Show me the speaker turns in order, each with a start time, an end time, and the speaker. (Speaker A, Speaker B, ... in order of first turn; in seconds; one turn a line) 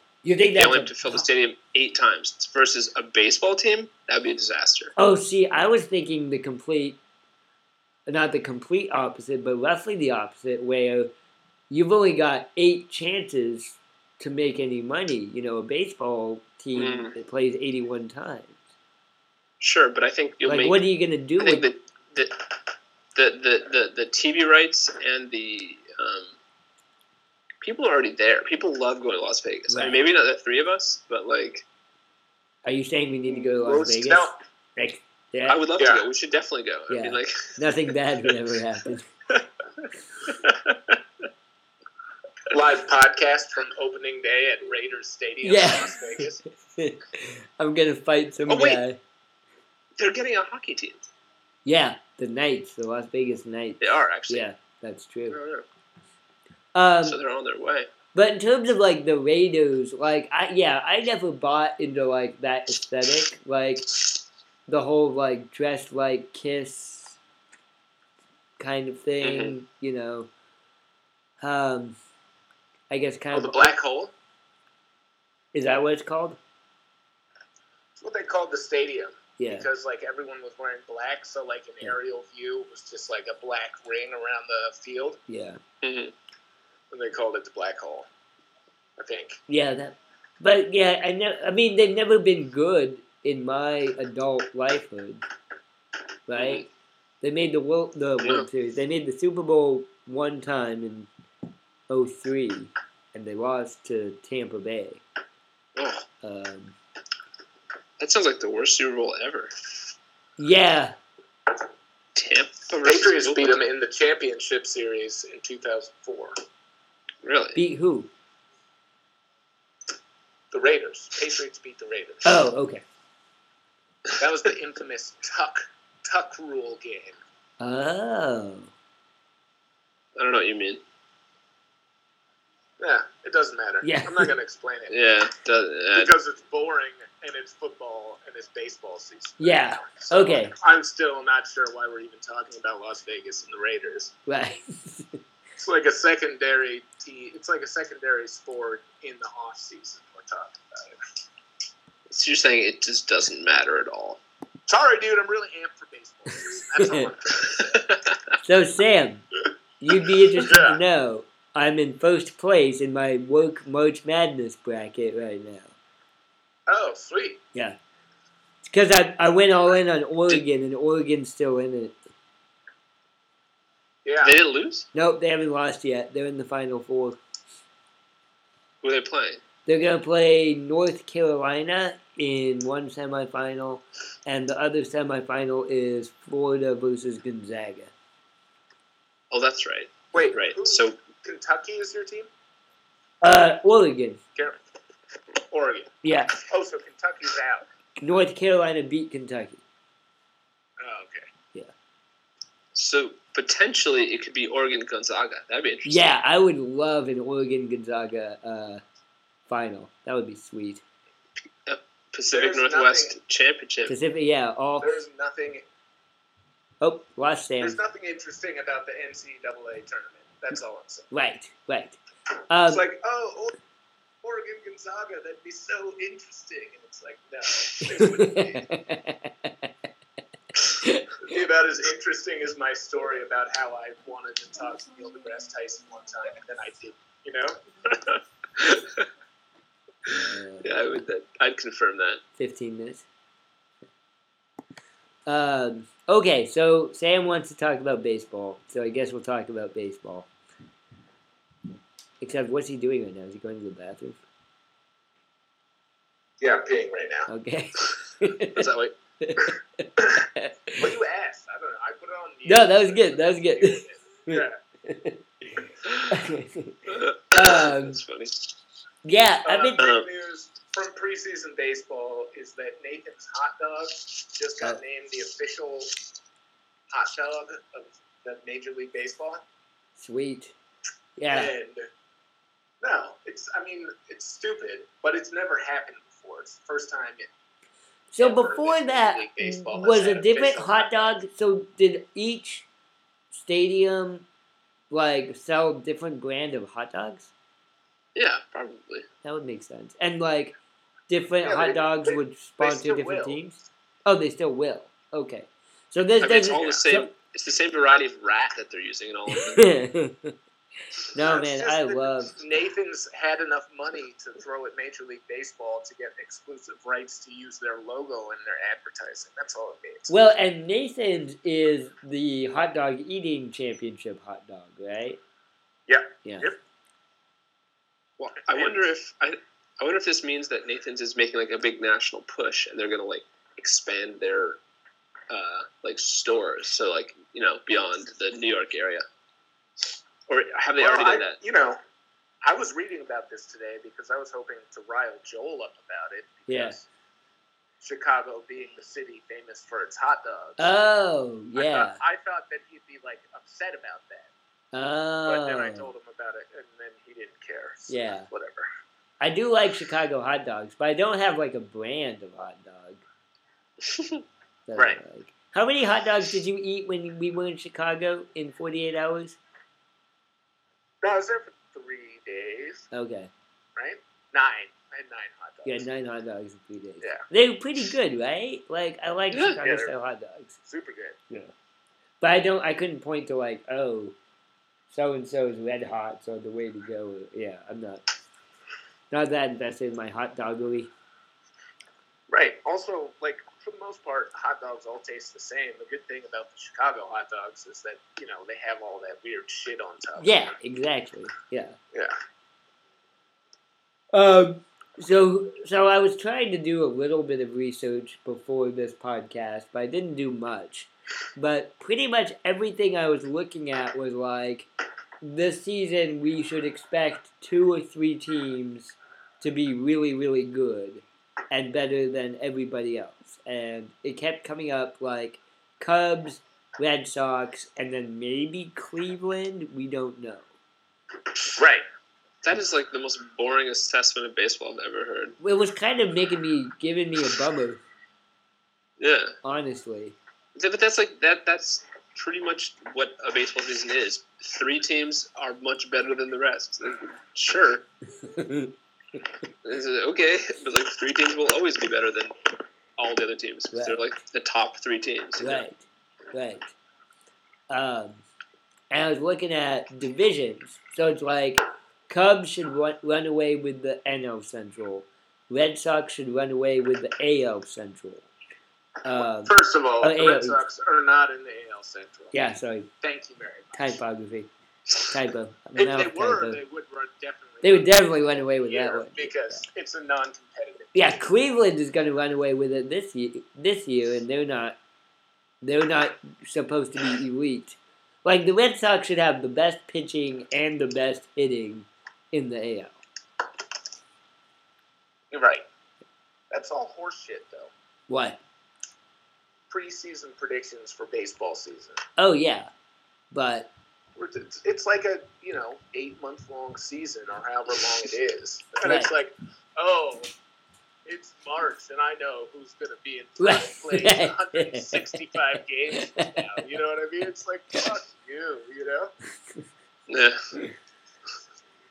Speaker A: 0.2-0.9
Speaker B: 0.5-4.9
Speaker A: 5.0-7.0
Speaker A: 8.1-11.1
Speaker A: 11.7-18.6
Speaker B: 16.7-17.1
Speaker B: 19.6-20.8
Speaker A: 20.4-21.7
Speaker B: 21.4-22.3
Speaker B: 23.1-26.4
Speaker B: 27.6-31.6
Speaker A: 29.7-30.0
Speaker A: 32.6-35.6
Speaker B: 33.3-34.1
Speaker C: 34.0-34.3
Speaker B: 35.5-37.6
Speaker C: 35.8-36.0
Speaker A: 36.9-39.1
Speaker B: 39.3-41.0
Speaker C: 42.5-46.4
Speaker A: 45.4-49.0
Speaker B: 48.5-48.8
Speaker B: 50.0-51.0
Speaker A: 51.6-55.4
Speaker B: 53.8-54.4
Speaker B: 55.3-55.6
Speaker A: 56.7-57.2
Speaker B: 57.0-57.9
Speaker A: 58.1-63.9
Speaker A: 64.7-67.2
Speaker A: 68.6-70.3
Speaker B: 69.2-69.5
Speaker A: 71.4-72.0
Speaker A: 72.9-73.7
Speaker C: 73.3-74.1
Speaker A: 75.5-76.4
Speaker C: 78.0-85.2
Speaker A: 79.4-79.7
Speaker A: 85.3-85.6
Speaker B: 85.8-86.1
Speaker C: 86.9-88.1
Speaker C: 89.0-89.4
Speaker A: 89.5-95.2
Speaker A: 96.3-96.6
Speaker B: 96.3-96.7
Speaker A: 97.2-101.1
Speaker A: 101.9-105.0
Speaker B: 105.8-106.0
Speaker A: 106.2-106.8
Speaker B: 108.0-109.5
Speaker A: 110.4-111.0
Speaker B: 112.1-113.6
Speaker C: 112.8-116.4
Speaker B: 117.2-117.6
Speaker A: 117.5-118.1
Speaker C: 120.5-122.3
Speaker A: 122.2-122.8
Speaker C: 124.2-127.2
Speaker A: 127.6-128.7
Speaker B: 130.2-130.8
Speaker C: 132.8-135.0
Speaker A: 133.8-134.3
Speaker B: 134.9-136.1
Speaker C: 135.9-144.1
Speaker A: 139.4-140.5
Speaker A: 144.3-145.2
Speaker C: 145.6-151.0
Speaker B: 152.1-154.2
Speaker C: 154.7-157.9
Speaker A: 156.8-157.1
Speaker B: 157.5-158.2
Speaker A: 158.4-159.2
Speaker A: 159.8-165.7
Speaker C: 160.4-160.8
Speaker C: 166.7-167.4
Speaker A: 168.6-172.0
Speaker C: 174.0-174.4
Speaker B: 174.2-174.9
Speaker A: 174.9-177.2
Speaker B: 178.8-179.4
Speaker A: 179.7-187.9
Speaker B: 189.3-191.0
Speaker C: 190.1-192.3
Speaker A: 193.2-194.2
Speaker C: 195.5-197.6
Speaker A: 196.0-196.4
Speaker A: 198.0-199.6
Speaker C: 200.8-201.3
Speaker B: 202.7-206.1
Speaker A: 205.8-208.8
Speaker A: 209.5-210.8
Speaker B: 211.7-213.9
Speaker C: 212.3-213.2
Speaker A: 213.9-215.0
Speaker C: 214.8-215.6
Speaker A: 216.8-217.8
Speaker C: 217.6-221.1
Speaker A: 221.1-222.0
Speaker A: 222.5-222.8
Speaker C: 222.7-223.6
Speaker C: 224.2-228.7
Speaker A: 227.9-229.7
Speaker A: 230.8-231.2
Speaker C: 231.2-237.6
Speaker B: 238.0-239.1
Speaker A: 240.1-240.9
Speaker B: 240.6-242.2
Speaker A: 242.4-243.1
Speaker A: 245.2-250.3
Speaker A: 252.2-254.2
Speaker C: 256.4-257.3
Speaker A: 257.3-258.7
Speaker B: 258.5-258.9
Speaker A: 259.2-260.9
Speaker C: 260.8-264.6
Speaker A: 262.4-268.0
Speaker B: 266.9-268.4
Speaker A: 269.0-269.9
Speaker C: 269.4-275.9
Speaker B: 269.8-270.1
Speaker C: 276.9-279.4
Speaker A: 280.0-280.5
Speaker A: 281.2-281.5
Speaker C: 281.3-281.9
Speaker C: 282.8-287.3
Speaker A: 288.1-292.7
Speaker C: 288.2-291.1
Speaker A: 293.3-294.2
Speaker A: 294.9-297.3
Speaker B: 298.1-299.1
Speaker A: 299.2-300.6
Speaker A: 301.1-307.1
Speaker C: 301.4-303.4
Speaker B: 306.2-309.6
Speaker C: 306.5-306.8
Speaker A: 309.3-310.4
Speaker A: 311.1-312.4
Speaker C: 311.1-320.1
Speaker A: 320.1-325.2
Speaker C: 325.9-326.6
Speaker A: 326.2-326.5
Speaker B: 328.2-334.6
Speaker C: 328.5-328.8
Speaker B: 335.3-339.0
Speaker B: 340.3-341.4
Speaker C: 340.8-341.8
Speaker C: 342.4-346.9
Speaker A: 346.5-346.8
Speaker C: 347.8-350.7
Speaker A: 350.6-352.0
Speaker C: 351.6-354.3
Speaker A: 354.7-355.9
Speaker C: 355.2-358.7
Speaker A: 357.9-358.3
Speaker A: 359.2-363.0
Speaker B: 363.9-364.2
Speaker A: 364.7-369.4
Speaker C: 364.8-365.0
Speaker C: 371.0-372.9
Speaker A: 372.9-373.3
Speaker C: 373.8-375.9
Speaker A: 375.6-380.5
Speaker B: 379.3-379.6
Speaker C: 379.6-379.9
Speaker C: 380.6-381.2
Speaker A: 382.2-384.1
Speaker A: 384.9-388.0
Speaker A: 389.1-390.9
Speaker C: 392.3-400.5
Speaker A: 400.2-401.8
Speaker A: 404.1-414.7
Speaker A: 415.2-430.5
Speaker C: 431.6-431.8
Speaker B: 432.4-435.4
Speaker A: 435.4-437.8
Speaker B: 439.0-439.3
Speaker A: 439.4-440.1
Speaker B: 440.6-447.8
Speaker A: 448.2-448.7
Speaker B: 449.6-452.3
Speaker B: 453.0-455.6
Speaker A: 453.7-454.0
Speaker A: 455.4-456.7
Speaker A: 457.7-458.2
Speaker A: 458.9-468.3
Speaker A: 469.0-470.6
Speaker C: 469.1-472.4
Speaker A: 472.3-472.9
Speaker C: 473.0-474.0
Speaker A: 473.7-474.5
Speaker A: 475.1-476.6
Speaker C: 475.8-477.9
Speaker A: 477.6-479.6
Speaker C: 478.6-481.2
Speaker A: 480.9-484.8
Speaker A: 485.6-493.0
Speaker C: 495.3-495.6
Speaker C: 496.5-497.7
Speaker A: 498.1-498.4
Speaker C: 499.7-502.0
Speaker A: 502.2-502.7
Speaker A: 503.3-503.7
Speaker C: 504.1-510.3
Speaker A: 508.8-509.1
Speaker C: 511.1-519.1
Speaker A: 513.4-515.2
Speaker A: 516.1-516.4
Speaker B: 520.1-520.6